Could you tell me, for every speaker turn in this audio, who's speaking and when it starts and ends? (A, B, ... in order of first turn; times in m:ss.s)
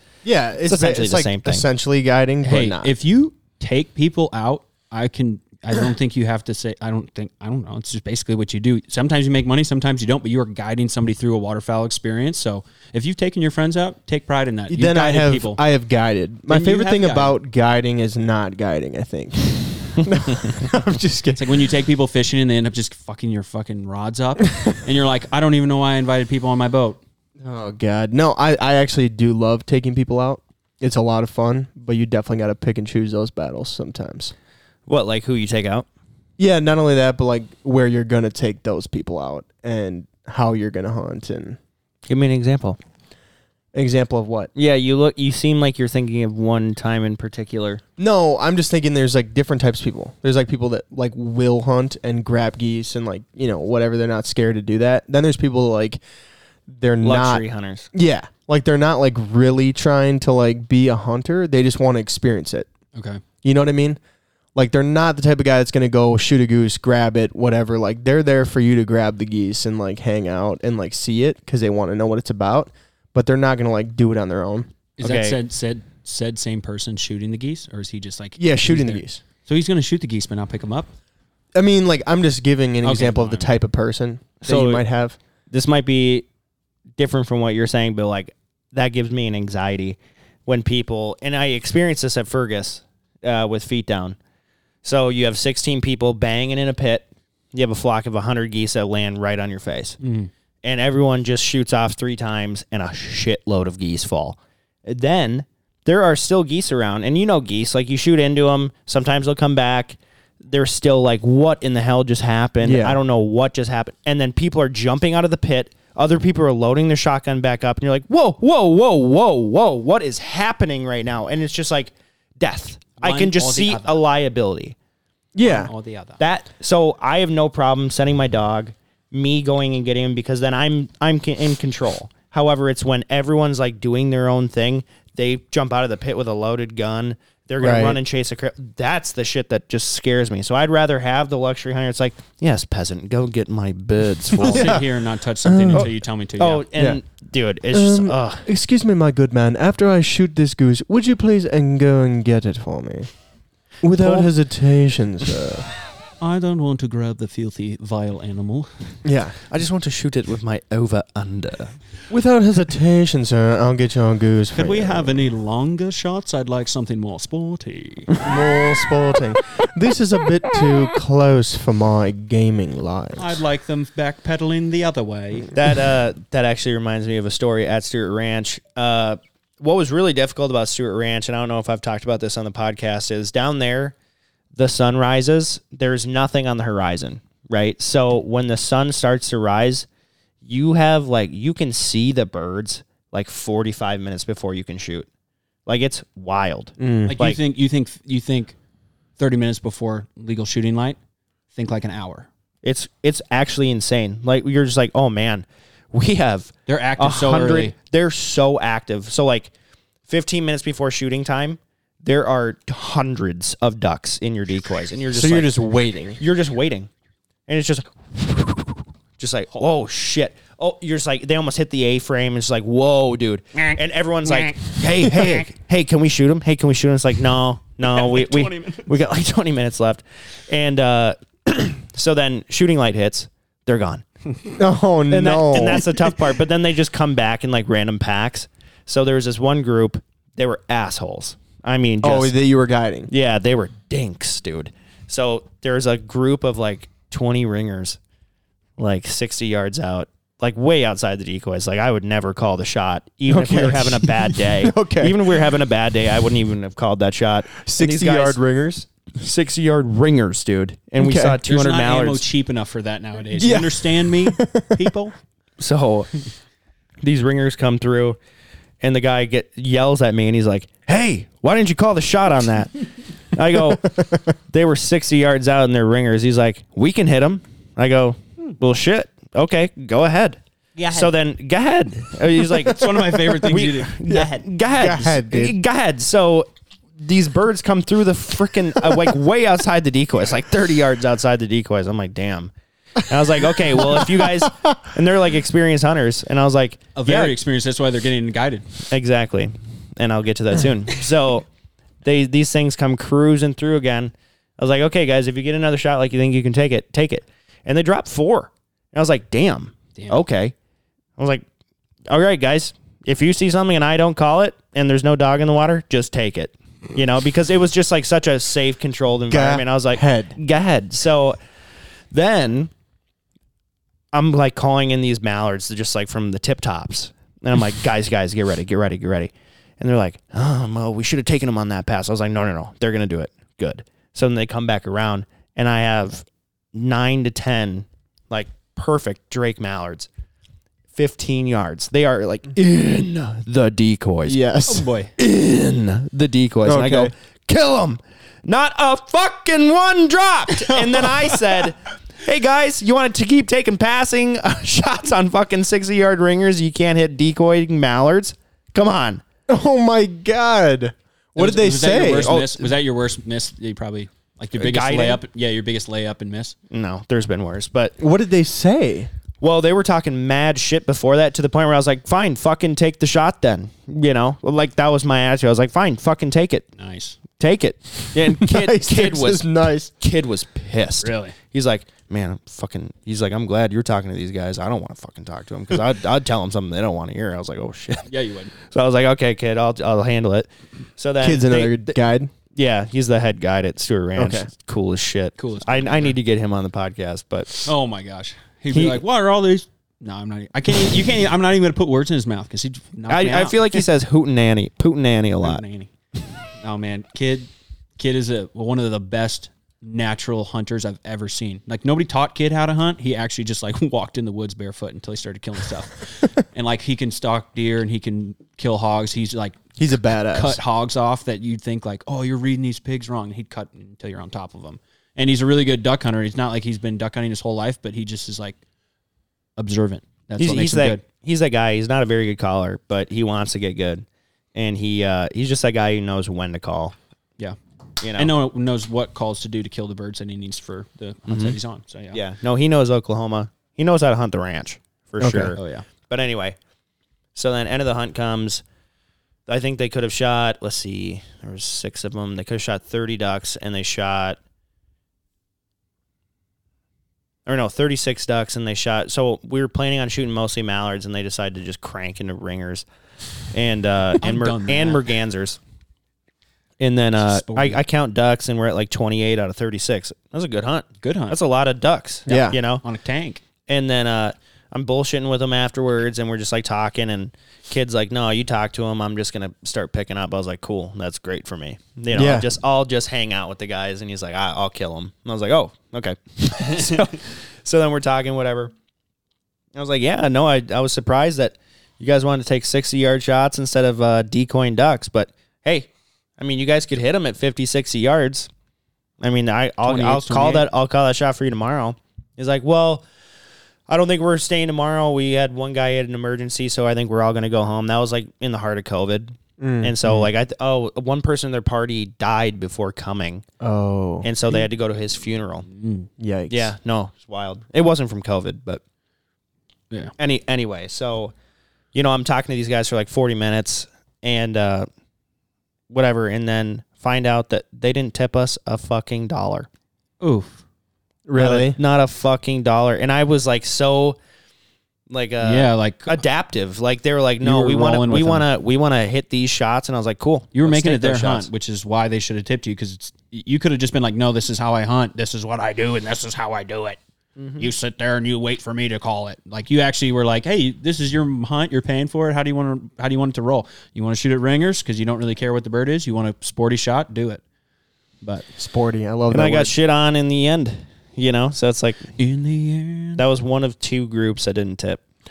0:00.2-0:02.9 A
0:00.6-0:01.6 B
0:02.4-0:15.6 C
0:14.7-0:21.5 A
0:16.5-0:17.4 C
0:21.4-0:27.0 C
0:27.4-0:34.3 A
0:34.9-0:35.9 B
0:36.4-0:41.6 A
0:42.1-0:42.8 B
0:43.7-0:44.5 A
0:44.5-0:47.8 B
0:48.0-0:56.0 A
0:56.7-1:02.7 A
0:57.0-0:57.9 B
1:02.9-1:03.2 C
1:03.4-1:04.0 A
1:04.5-1:14.7 A
1:15.0-1:20.9 C
1:15.0-1:15.4 B
1:18.4-1:19.2 A
1:21.5-1:25.2 A
1:22.8-1:23.5 C
1:24.4-1:24.8 B
1:25.5-1:26.3 B
1:27.0-1:34.2 B
1:34.8-1:40.0 B
1:40.0-1:40.3 C
1:40.6-2:04.8 B
1:52.6-1:53.0 A
2:03.0-2:04.0 C
2:05.3-2:05.7 A
2:05.4-2:06.2 C
2:06.2-2:24.8 B
2:17.6-2:18.0 A
2:24.4-2:26.6 C
2:24.4-2:24.8 A
2:25.4-2:25.9 A
2:25.7-2:28.4 B
2:27.7-2:33.1 A
2:33.8-2:35.6 A
2:33.9-2:34.3 B
2:36.2-2:38.9 C
2:39.0-2:39.3 A
2:39.5-2:41.8 B
2:42.1-2:45.2 A
2:44.6-2:48.3 C
2:48.2-2:53.4 A
2:53.2-2:55.5 C
2:55.5-3:04.0 B
3:04.5-3:09.9 B
3:10.4-3:15.1 B
3:15.6-3:17.4 B
3:16.8-3:17.2 A
3:17.1-3:18.6 C
3:19.2-3:21.0 C
3:21.5-3:22.3 C
3:22.6-3:29.5 B
3:26.7-3:27.7 C
3:30.1-3:35.6 B
3:35.1-3:36.2 A
3:36.2-3:36.9 B
3:37.5-3:54.0 B
3:44.2-3:45.3 C
3:47.8-3:48.9 C
3:54.6-3:55.9 A
3:55.1-4:02.3 B
4:02.0-4:03.1 A
4:03.1-4:08.0 B
4:08.8-4:18.4 B
4:13.3-4:15.4 A
4:17.6-4:18.9 A
4:19.1-4:22.2 B
4:21.0-4:21.4 A
4:21.4-4:25.1 C
4:23.3-4:24.9 A
4:25.6-4:26.1 B
4:27.0-4:28.2 B
4:28.8-4:57.3 B
4:42.4-4:44.3 C
4:44.1-4:45.6 A
4:53.8-4:54.8 A
4:57.0-4:58.7 C
4:58.9-5:01.5 B
5:02.0-5:10.5 B
5:10.0-5:10.2 C
5:11.2-5:11.4 B
5:12.1-5:21.4 B
5:19.3-5:20.4 A
5:22.1-5:22.7 B
5:24.1-5:40.1 B
5:40.9-5:44.4 B
5:44.2-5:44.9 A
5:44.6-5:45.1 C
5:45.2-5:59.2 B
5:46.6-5:47.1 A
5:59.5-6:02.4 A
6:01.4-6:06.5 C
6:02.1-6:02.7 B
6:04.6-6:05.2 B
6:06.7-6:08.0 B
6:08.0-6:09.1 A
6:09.4-6:16.7 B
6:16.8-6:17.2 C
6:17.4-6:32.0 B
6:18.2-6:19.9 A
6:21.0-6:21.3 C
6:28.1-6:28.5 C
6:31.2-6:32.3 A
6:32.5-6:37.7 B
6:34.2-6:34.5 A
6:35.4-6:36.1 C
6:37.6-6:43.8 C
6:38.7-6:39.0 B
6:43.1-6:45.6 B
6:45.4-6:45.9 C
6:46.5-6:59.7 C
6:59.8-7:00.6 A
7:00.3-7:08.6 C
7:09.6-7:11.0 C
7:10.4-7:16.9 B
7:18.0-7:18.3 B
7:18.1-7:22.2 C
7:21.3-7:21.6 B
7:22.1-7:26.6 B
7:25.2-7:25.5 A
7:25.6-7:25.8 C
7:27.3-7:28.6 B
7:29.5-7:34.4 B
7:37.4-7:42.8 B
7:43.5-7:45.6 B
7:44.2-7:45.0 C
7:46.8-7:52.8 B
7:47.2-7:47.8 C
7:51.0-7:51.4 C
7:52.3-7:52.6 A
7:52.8-7:53.4 C
7:53.6-8:08.7 B
8:02.1-8:02.4 A
8:09.7-8:18.5 B
8:19.2-8:23.0 B
8:19.8-8:20.7 C
8:23.9-8:33.4 B
8:29.6-8:29.9 A
8:33.6-8:34.3 A
8:34.2-8:35.6 B
8:35.7-8:36.1 C
8:36.2-8:36.7 A
8:36.5-8:38.8 B
8:40.2-8:41.3 B
8:41.9-8:44.9 B
8:45.9-8:49.7 B
8:50.2-8:50.6 C
8:51.3-8:51.8 A
8:51.4-8:54.2 B
8:55.1-9:01.5 B
8:55.4-8:56.2 C
8:57.4-8:58.4 C
9:00.5-9:07.0 C
9:07.4-9:07.6 B
9:07.6-9:17.4 C
9:18.6-9:19.7 A
9:19.3-9:22.1 B
9:22.2-9:23.2 C
9:23.2-9:25.0 B